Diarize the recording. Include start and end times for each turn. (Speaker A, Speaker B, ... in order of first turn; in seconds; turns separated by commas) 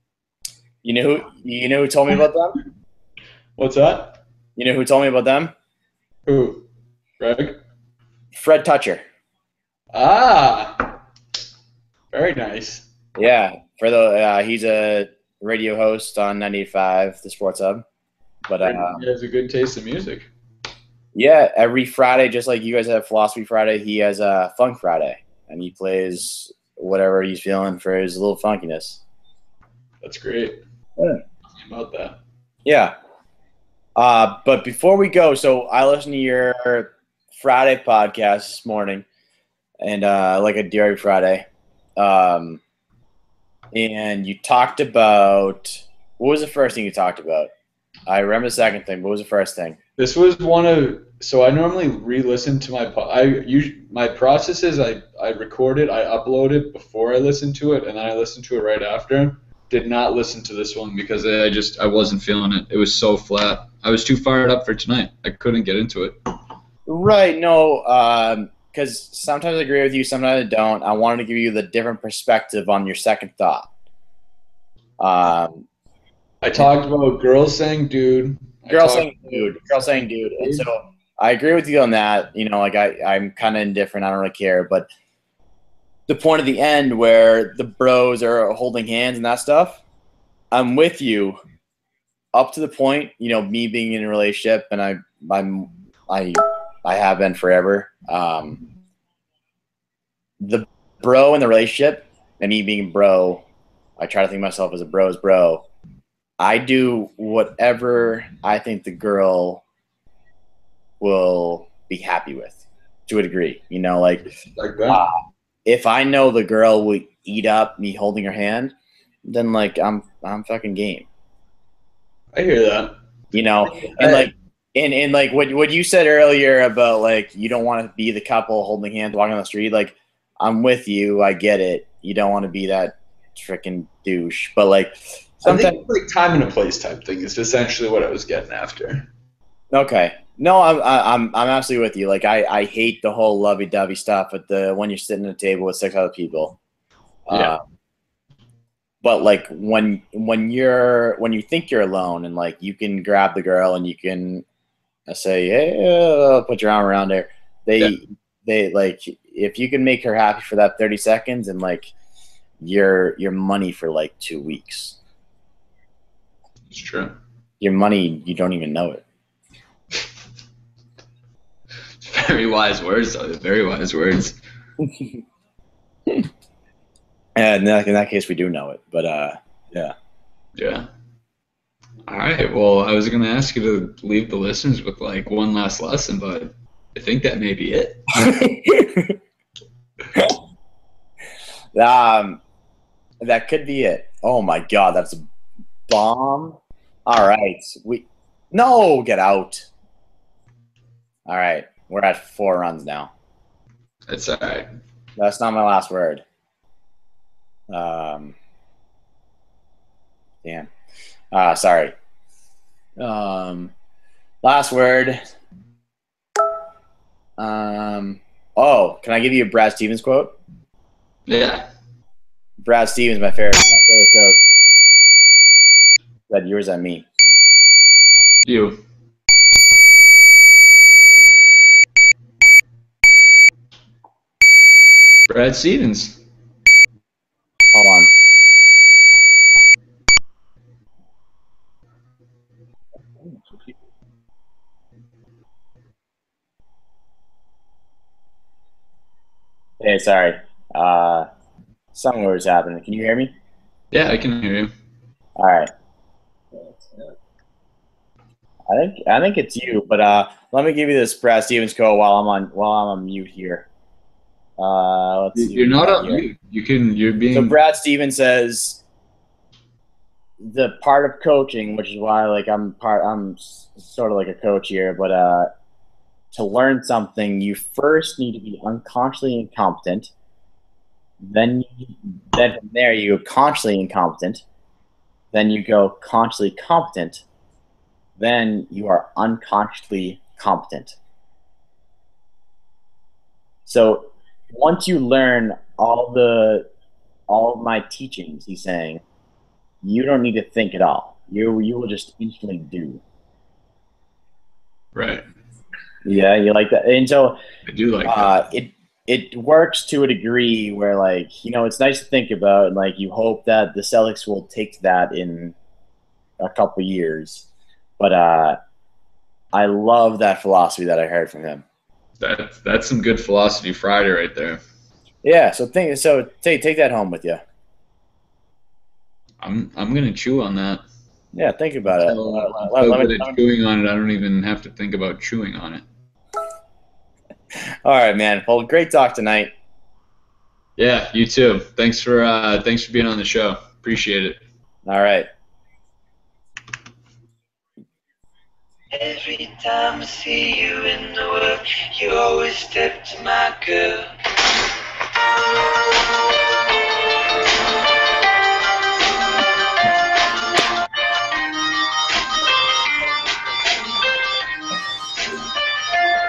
Speaker A: 0.8-2.6, Speaker B: 3.6-4.2, Speaker A: 4.6-5.5, Speaker B: 6.2-6.7, Speaker B: 7.2-7.6, Speaker A: 8.3-9.0, Speaker B: 9.9-10.9, Speaker B: 12.1-12.9, Speaker A: 13.2-17.8, Speaker A: 18.5-19.0, Speaker B: 18.6-20.3, Speaker A: 21.1-29.0, Speaker B: 30.0-30.6, Speaker B: 31.6-32.2, Speaker A: 32.6-32.9, Speaker A: 34.0-39.0, Speaker A: 39.8-41.5, Speaker A: 42.0-42.6, Speaker A: 43.7-47.5, Speaker A: 48.1-49.8, Speaker B: 50.0-66.2, Speaker A: 66.8-73.7, Speaker A: 75.0-75.7, Speaker B: 76.4-79.6, Speaker A: 78.7-84.8, Speaker B: 80.4-80.7, Speaker A: 86.1-89.8, Speaker A: 90.5-91.4, Speaker A: 92.3-98.6, Speaker A: 100.4-103.4, Speaker A: 104.0-105.6, Speaker A: 106.4-109.6, Speaker A: 111.0-114.2, Speaker B: 114.5-115.0, Speaker A: 114.9-121.1, Speaker B: 122.3-122.9, Speaker A: 123.3-135.8, Speaker B: 123.6-124.3, Speaker B: 135.4-139.1, Speaker A: 139.7-146.6, Speaker A: 147.3-147.6, Speaker B: 147.3-147.6, Speaker A: 149.0-154.4, Speaker A: 155.1-161.9, Speaker A: 162.6-165.0, Speaker B: 166.7-167.1, Speaker A: 167.6-169.0, Speaker B: 172.0-174.4, Speaker A: 177.3-179.9, Speaker B: 180.6-180.9, Speaker B: 182.1-188.1, Speaker A: 188.2-189.2, Speaker A: 191.7-192.4, Speaker A: 193.2-195.2, Speaker A: 195.9-199.7, Speaker A: 201.3-203.1, Speaker B: 204.1-204.7, Speaker A: 205.2-206.2, Speaker A: 207.7-208.3, Speaker A: 211.3-211.9, Speaker A: 213.0-213.7, Speaker A: 214.4-215.2, Speaker A: 217.4-220.3, Speaker B: 221.3-221.7, Speaker A: 222.6-224.4, Speaker A: 226.3-227.1, Speaker B: 228.4-228.8, Speaker B: 235.3-236.2, Speaker A: 237.7-238.1, Speaker A: 249.8-251.3, Speaker A: 251.9-253.3, Speaker B: 253.9-254.7, Speaker A: 255.4-255.7, Speaker A: 258.7-263.7, Speaker A: 264.6-266.2, Speaker B: 265.3-267.6, Speaker A: 267.3-268.8, Speaker A: 270.4-275.5, Speaker A: 276.3-280.1, Speaker A: 281.2-284.4, Speaker A: 285.3-287.2, Speaker A: 288.2-291.0, Speaker A: 293.6-296.7, Speaker A: 297.3-299.0, Speaker A: 299.8-303.0, Speaker B: 304.9-305.2, Speaker A: 306.0-307.4, Speaker B: 307.7-308.3, Speaker A: 308.0-315.6, Speaker A: 316.4-317.5, Speaker A: 318.0-318.6, Speaker A: 319.5-321.6, Speaker B: 322.2-324.6, Speaker A: 325.2-327.4, Speaker B: 329.4-330.8, Speaker A: 331.3-333.4, Speaker B: 331.9-335.8, Speaker A: 337.8-339.5, Speaker B: 340.8-344.4, Speaker A: 344.9-345.3, Speaker C: 349.0-354.1